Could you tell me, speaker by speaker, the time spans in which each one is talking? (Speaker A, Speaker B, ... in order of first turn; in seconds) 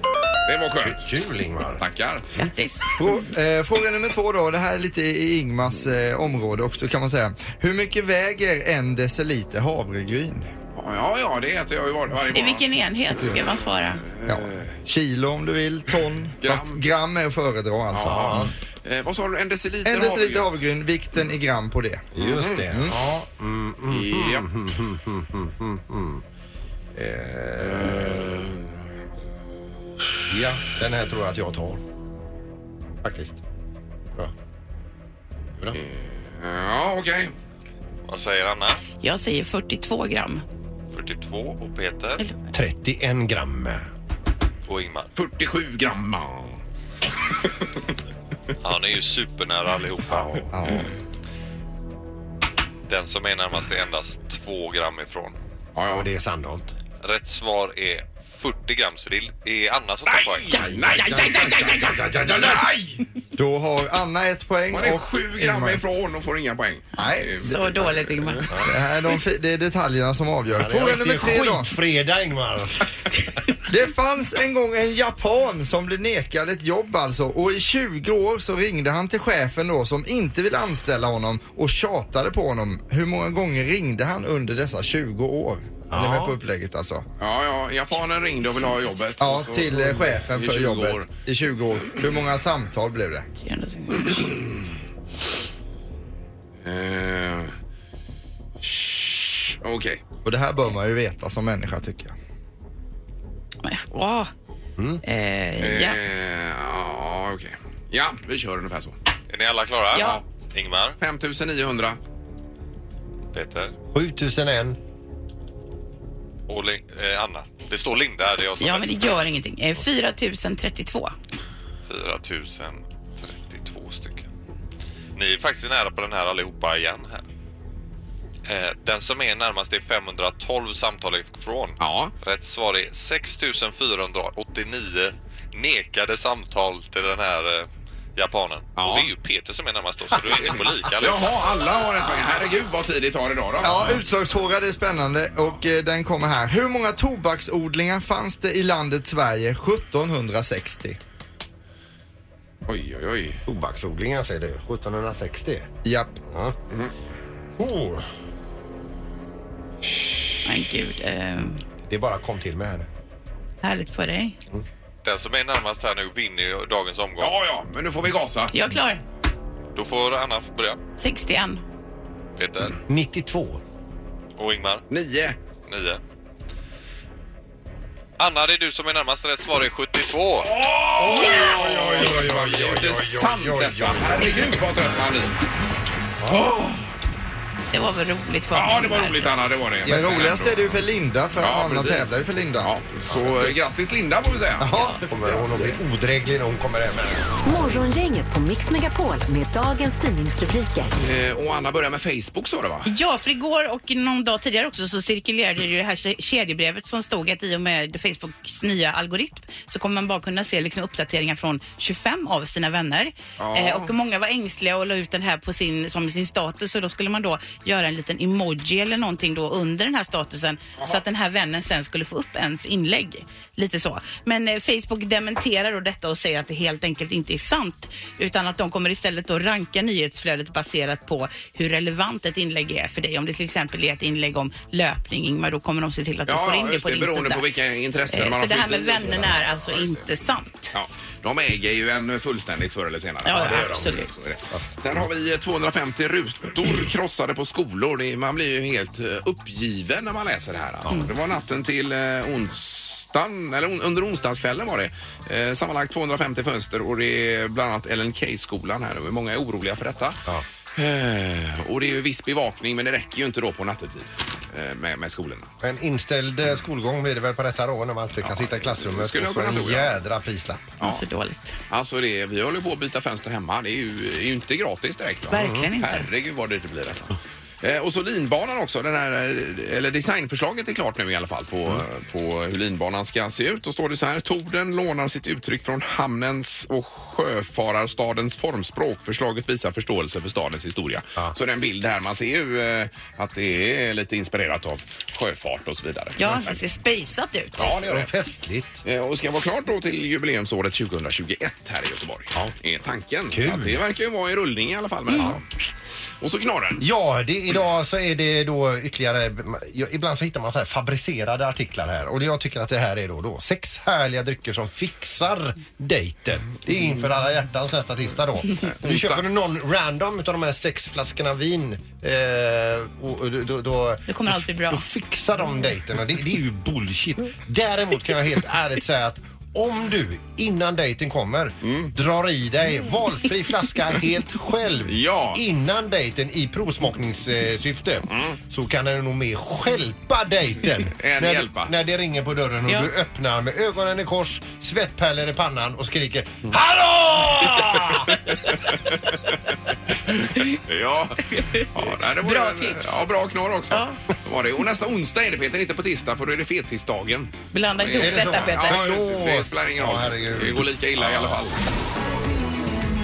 Speaker A: 0.4-1.1, 1.8-2.3, 10.8-12.7, 14.1-14.7, 16.4-16.8, 17.9-20.5, 22.2-23.2, 23.9-24.5, 27.6-28.7, 35.7-37.3, 45.1-46.6, 55.8-56.1, 60.0-63.0, 64.7-68.5, 87.2-91.1, 96.6-97.5, 98.6-100.0, 105.6-109.0, 109.9-110.2, 111.0-112.0, 131.8-132.1, 138.8-139.1, 140.2-144.0, 152.7-153.4, 167.2-168.5, 174.9-175.4, 180.4-185.4, 186.2-186.9, 188.5-190.8, 191.4-194.7, 201.0-202.9, 213.4-213.9, 236.3-240.1, 240.7-260.2, 260.8-265.5, 268.2-269.9, 271.7-296.6, 297.6-298.1, 298.9-305.4, 306.2-306.9, 318.6-319.2, 331.6-331.9, 334.9-335.4, 338.1-338.4, 340.9-341.7, 347.6-349.1, 350.4-361.6
Speaker B: 0.8-1.8, 18.0-18.5, 22.1-26.2, 26.9-28.3, 30.3-31.8, 33.0-33.4, 42.5-43.9, 50.1-50.5, 55.9-56.7, 60.5-62.8, 68.5-68.8, 70.5-72.9, 85.9-86.4, 113.9-114.8, 153.4-155.7, 156.3-156.6, 157.6-158.1, 161.9-162.9, 172.9-173.6, 181.0-184.5, 186.2-186.5, 193.1-193.6, 195.0-197.3, 243.3-244.0, 244.5-245.0, 265.6-270.8, 275.3-275.7, 297.6-298.8, 303.3-303.8, 305.1-305.4, 306.8-348.1, 358.0-361.4
Speaker C: 2.4-3.0, 12.3-14.0, 39.0-40.4, 67.0-68.5, 93.4-94.4, 103.6-104.3, 105.0-106.0, 109.9-110.2, 118.6-121.1, 160.4-161.6, 163.6-164.4, 168.5-169.0, 171.0-171.6, 181.1-181.4, 187.7-189.3, 202.9-237.4, 238.1-240.8, 243.2-244.1, 270.8-271.6, 275.3-276.1, 296.2-297.6, 324.1-324.9, 351.3-351.7, 352.2-353.0, 353.7-354.0, 357.5-358.8
Speaker D: 3.0-10.5, 14.2-18.5, 19.8-22.1, 22.7-22.9, 63.4-65.9, 67.0-67.8, 68.6-71.7, 73.6-87.0, 89.2-93.3, 100.2-102.1, 143.6-151.0, 155.8-156.2, 189.8-192.7, 194.6-195.0
Speaker E: 38.1-38.8, 40.9-42.2, 44.7-45.1, 48.6-50.9, 52.9-55.4, 57.0-60.7, 109.3-111.0, 113.3-113.7, 116.5-119.0, 121.9-124.3, 125.1-127.2, 128.5-141.4, 165.0-167.3, 169.8-170.8, 172.4-172.8, 174.4-174.8, 175.7-176.0, 178.2-180.5
Speaker F: 197.4-200.9